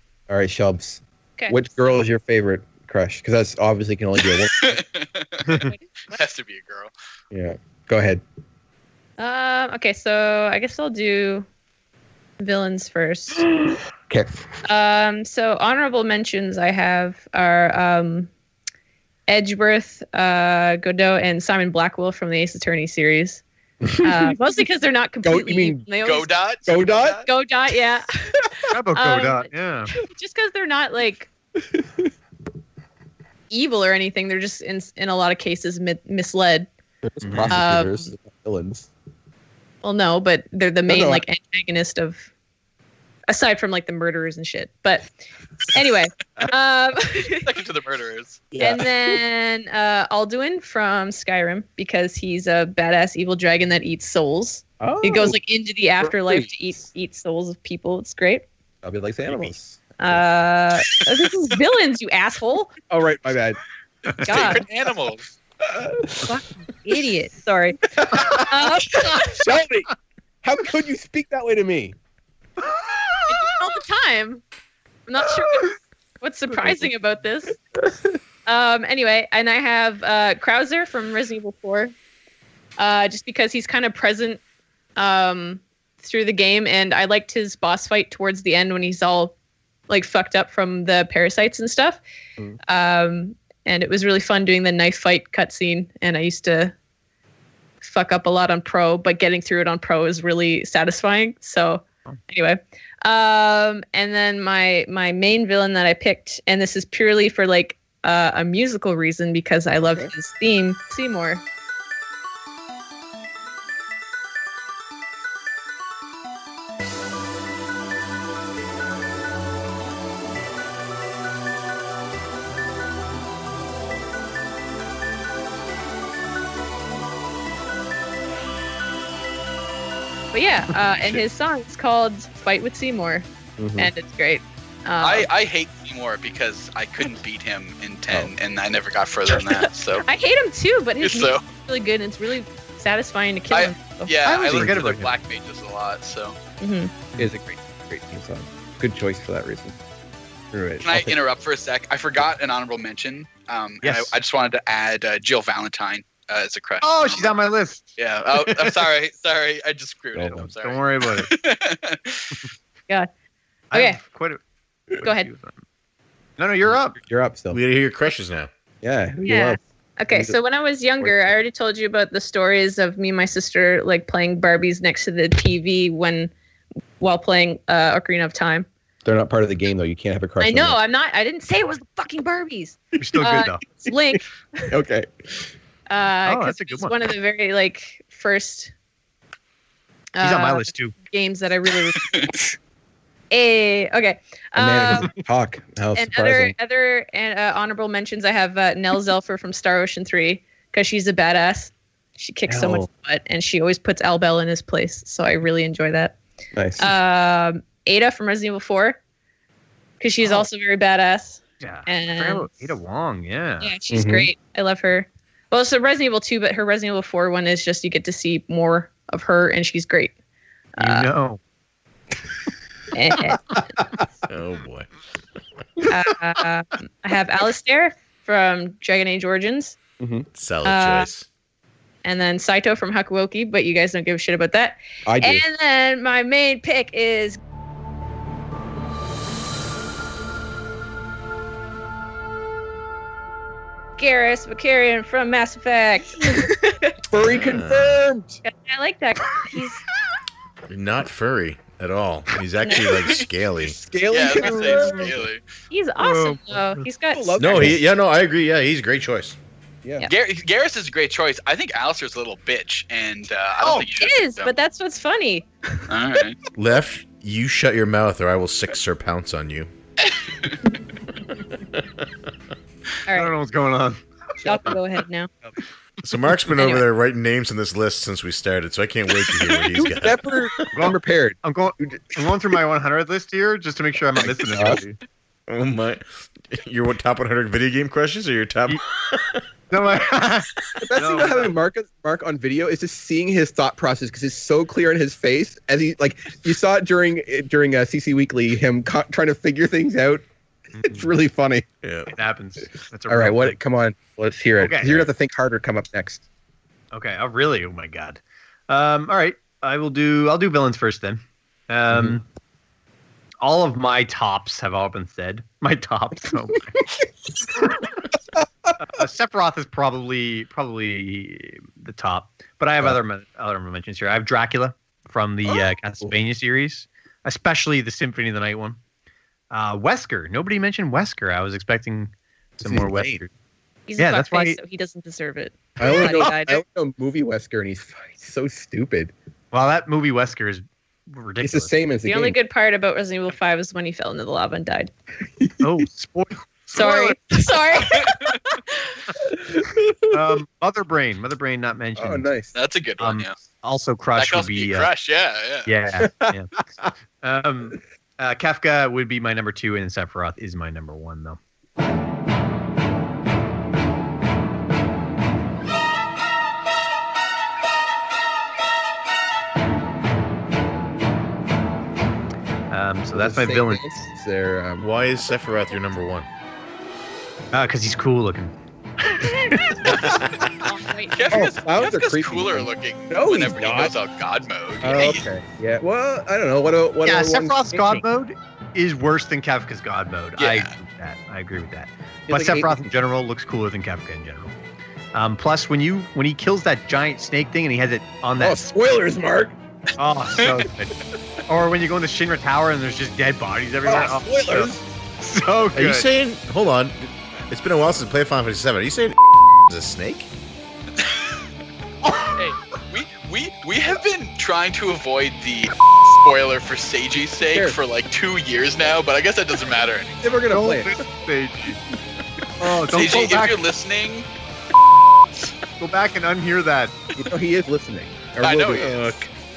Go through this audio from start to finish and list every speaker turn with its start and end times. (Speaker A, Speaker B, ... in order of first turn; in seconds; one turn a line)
Speaker A: 0.3-4.8
Speaker B: 4.5-6.9
Speaker C: 5.5-5.7
Speaker A: 7.3-8.2
Speaker D: 9.2-11.3
Speaker D: 12.5-13.3
Speaker A: 13.5-14.6
Speaker D: 14.7-18.2
Speaker D: 19.3-23.4
Speaker A: 23.8-24.4
Speaker D: 24.0-26.2
Speaker A: 25.2-25.9
Speaker B: 26.0-27.3
Speaker A: 26.6-27.2
Speaker D: 27.3-28.0
Speaker C: 28.7-29.9
Speaker D: 30.2-31.1
Speaker A: 31.7-32.1
Speaker D: 33.5-36.6
Speaker A: 37.0-38.9
Speaker C: 37.2-37.6
Speaker D: 37.5-37.9
Speaker D: 39.8-42.2
Speaker A: 40.9-41.2
Speaker D: 43.3-45.0
Speaker D: 45.8-46.9
Speaker B: 47.4-48.5
Speaker A: 48.5-49.2
Speaker D: 48.7-58.4
Speaker A: 54.8-55.4
Speaker A: 56.0-56.5
Speaker A: 58.8-60.2
Speaker D: 60.0-62.7
Speaker A: 62.9-63.6
Speaker B: 64.2-65.3
Speaker D: 64.2-64.6
Speaker A: 65.6-66.3
Speaker D: 66.3-67.8
Speaker A: 67.9-69.9
Speaker D: 68.5-69.2
Speaker A: 70.4-71.9
Speaker D: 73.3-74.4
Speaker D: 75.1-75.6
Speaker D: 76.2-77.5
Speaker D: 78.5-81.8
Speaker D: 82.8-84.4
Speaker D: 85.0-89.3
Speaker D: 89.9-92.0
Speaker D: 92.7-96.7
Speaker D: 97.8-111.4
Speaker D: 130.3-133.2
Speaker A: 133.6-133.9
Speaker D: 133.8-135.2
Speaker B: 135.0-140.0
Speaker D: 140.1-144.0
Speaker B: 141.0-141.4
Speaker B: 143.5-146.4
Speaker C: 144.2-145.1
Speaker D: 146.6-146.9
Speaker A: 147.2-149.8
Speaker A: 150.5-151.1
Speaker B: 150.8-157.3
Speaker C: 153.8-154.1
Speaker C: 156.8-158.7
Speaker B: 158.0-162.4
Speaker A: 160.1-160.5
Speaker C: 160.6-161.3
Speaker C: 163.7-164.4
Speaker C: 165.0-165.6
Speaker D: 165.0-165.3
Speaker C: 166.4-167.0
Speaker A: 166.7-167.6
Speaker E: 167.5-168.5
Speaker A: 168.8-169.6
Speaker D: 169.3-176.3
Speaker A: 171.0-171.3
Speaker D: 177.0-178.7
Speaker A: 179.0-180.8
Speaker D: 180.4-184.2
Speaker C: 183.0-183.6
Speaker A: 184.7-185.4
Speaker D: 185.9-188.7
Speaker C: 186.2-186.9
Speaker D: 190.2-190.5
Speaker C: 190.2-190.9
Speaker D: 191.1-192.0
Speaker D: 193.3-195.1
Speaker A: 194.6-196.5
Speaker D: 196.0-206.2
Speaker A: 202.5-202.8
Speaker A: 206.6-206.9
Speaker D: 206.8-209.0
Speaker D: 210.0-212.3
Speaker C: 211.6-213.7
Speaker D: 213.6-220.1
Speaker A: 213.9-214.3
Speaker C: 220.8-221.4
Speaker D: 222.9-223.3
Speaker C: 223.6-224.0
Speaker E: 224.3-224.9
Speaker D: 225.9-229.8
Speaker A: 230.0-230.3
Speaker E: 230.3-231.2
Speaker D: 230.7-231.1
Speaker D: 232.0-237.4
Speaker A: 235.1-235.4
Speaker D: 244.0-246.5
Speaker A: 247.1-248.4
Speaker E: 247.2-248.0
Speaker D: 248.5-249.8
Speaker E: 250.7-253.8
Speaker B: 252.9-253.2
Speaker A: 253.6-255.2
Speaker B: 254.1-255.4
Speaker D: 255.7-257.3
Speaker C: 256.0-256.9
Speaker A: 257.1-257.8
Speaker E: 257.4-259.4
Speaker B: 260.1-264.5
Speaker C: 263.6-263.9
Speaker D: 264.0-265.5
Speaker B: 265.9-266.4
Speaker E: 266.6-269.7
Speaker B: 270.0-270.6
Speaker C: 273.1-274.0
Speaker D: 274.4-275.3
Speaker E: 276.0-280.6
Speaker A: 279.7-282.0
Speaker C: 280.7-285.0
Speaker A: 284.2-284.8
Speaker E: 285.5-289.4
Speaker C: 289.7-291.5
Speaker A: 290.8-300.2
Speaker C: 300.7-301.1
Speaker A: 300.9-301.6
Speaker E: 301.8-302.1
Speaker C: 302.1-303.6
Speaker A: 303.1-306.2
Speaker C: 304.6-305.1
Speaker C: 306.9-312.2
Speaker A: 311.9-312.2
Speaker C: 313.4-316.8
Speaker A: 318.4-318.7
Speaker C: 318.8-328.8
Speaker A: 325.5-326.1
Speaker C: 329.5-333.3
Speaker A: 332.6-333.2
Speaker D: 333.9-336.6
Speaker C: 334.0-334.6
Speaker A: 335.8-339.1
Speaker C: 339.5-341.7
Speaker A: 341.4-342.4
Speaker D: 342.1-344.9
Speaker C: 345.6-347.2
Speaker D: 346.7-348.1
Speaker A: 349.2-350.1
Speaker C: 350.1-352.3
Speaker A: 352.0-352.5
Speaker B: 352.5-353.3
Speaker C: 353.0-354.9
Speaker B: 354.1-355.7
Speaker C: 355.6-356.5
Speaker A: 356.1-356.3
Speaker C: 357.2-361.4
Speaker C: 372.7-373.8
Speaker A: 373.1-374.9
Speaker E: 374.8-376.3
Speaker C: 377.5-380.2
Speaker E: 379.9-380.4
Speaker D: 380.6-381.1
Speaker B: 381.1-385.2
Speaker A: 381.3-383.9
Speaker A: 384.8-388.0
Speaker C: 387.0-394.5
Speaker B: 390.4-390.7
Speaker A: 392.3-392.9
Speaker C: 395.1-398.6
Speaker A: 398.4-399.6
Speaker C: 400.0-406.1
Speaker A: 403.8-404.8
Speaker E: 405.7-410.3
Speaker C: 412.1-412.4
Speaker B: 412.3-420.2
Speaker A: 417.5-417.8
Speaker A: 420.2-421.0
Speaker C: 420.5-421.8
Speaker C: 422.6-423.6
Speaker B: 422.9-424.3
Speaker C: 425.8-426.9
Speaker A: 427.1-429.1
Speaker B: 428.4-429.1
Speaker E: 428.8-429.3